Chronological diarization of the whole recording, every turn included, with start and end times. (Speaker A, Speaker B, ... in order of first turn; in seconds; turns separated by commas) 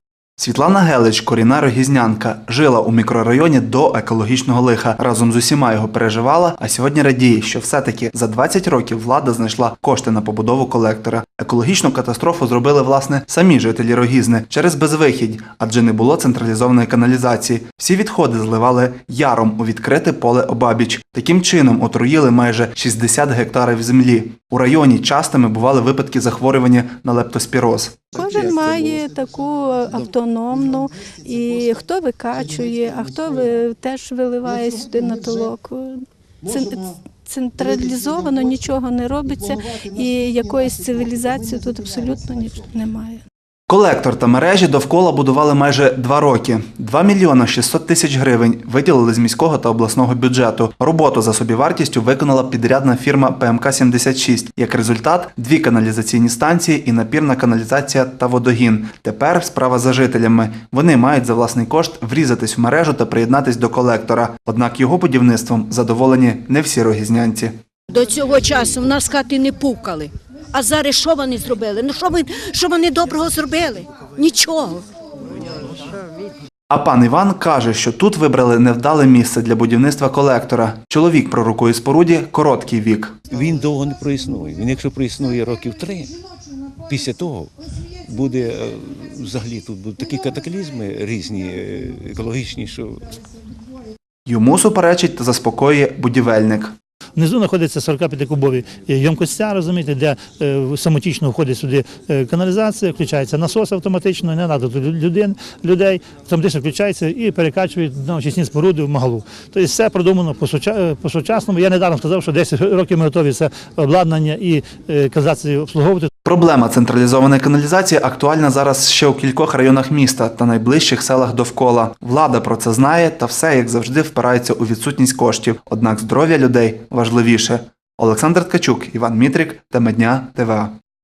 Speaker A: 0.4-28.0, Speaker B: 28.2-33.4, Speaker C: 28.4-28.9, Speaker B: 34.0-35.5, Speaker B: 37.4-42.7, Speaker C: 41.2-42.1, Speaker A: 43.7-67.5, Speaker D: 67.9-74.8, Speaker A: 76.7-83.2, Speaker E: 83.3-86.1, Speaker E: 86.9-87.5, Speaker E: 88.1-93.0, Speaker A: 94.2-96.7, Speaker C: 97.2-116.1, Speaker A: 116.2-130.7